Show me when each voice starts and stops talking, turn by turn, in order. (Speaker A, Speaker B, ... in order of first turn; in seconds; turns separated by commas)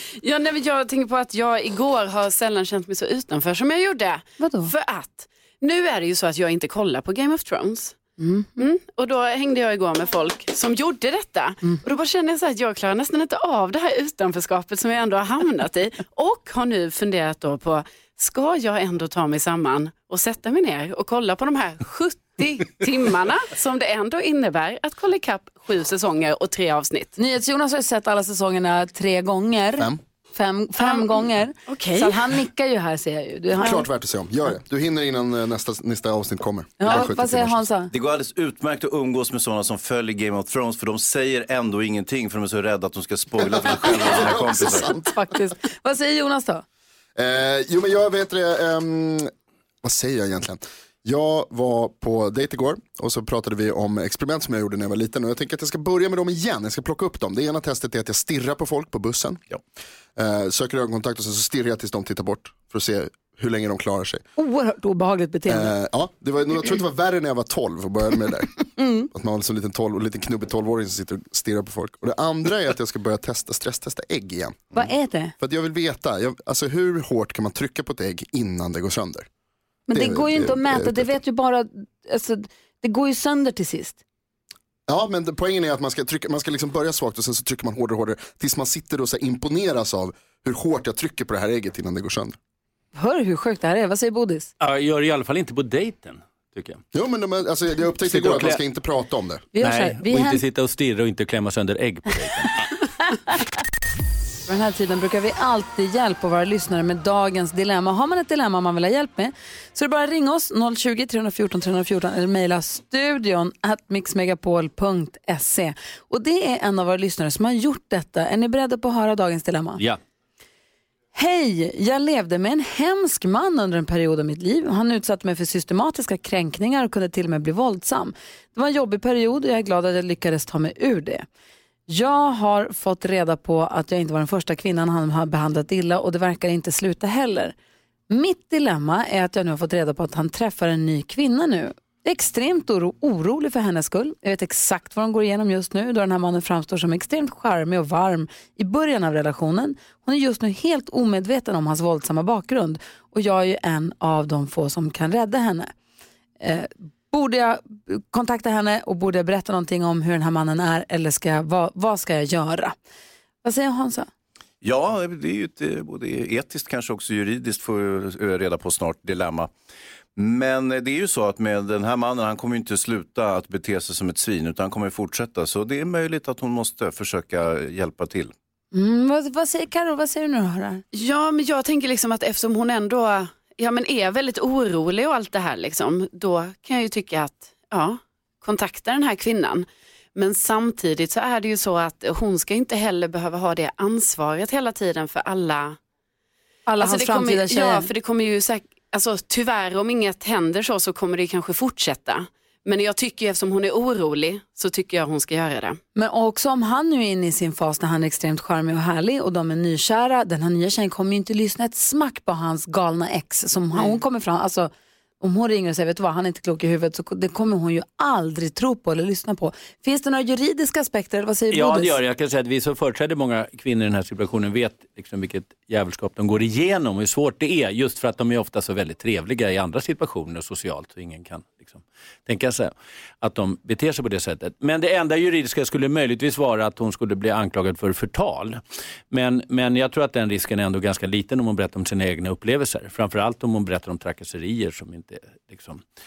Speaker A: 0.2-8.0, Speaker B: 4.4-4.7, Speaker B: 8.2-8.6, Speaker A: 8.6-27.1, Speaker B: 27.2-33.9, Speaker A: 30.8-32.3, Speaker C: 33.6-37.7, Speaker B: 36.8-37.9, Speaker D: 37.9-44.9, Speaker C: 43.7-45.1, Speaker B: 44.8-46.6, Speaker C: 47.1-49.3, Speaker C: 49.8-59.4, Speaker C: 60.1-64.2, Speaker B: 64.4-65.7, Speaker C: 65.5-68.5, Speaker B: 68.8-69.1, Speaker C: 69.1-79.3, Speaker B: 74.7-75.3, Speaker B: 79.9-84.0, Speaker C: 79.9-81.1, Speaker C: 84.9-92.4, Speaker B: 92.9-94.5, Speaker E: 94.6-96.8, Speaker C: 96.9-99.4, Speaker E: 98.1-98.6, Speaker B: 99.5-100.4, Speaker E: 99.6-102.6, Speaker B: 104.5-119.8, Speaker B: 121.1-131.2, Speaker B: 131.9-137.6, Speaker B: 138.1-155.7, Speaker B: 156.4-162.7, Speaker B: 163.4-164.1, Speaker D: 164.6-169.5, Speaker D: 170.2-178.3, Speaker B: 178.7-180.8, Speaker A: 180.9-195.8, Speaker B: 196.7-197.9, Speaker A: 196.8-205.8, Speaker B: 205.9-222.0, Speaker A: 213.7-214.0, Speaker E: 221.5-238.6, Speaker E: 239.1-245.8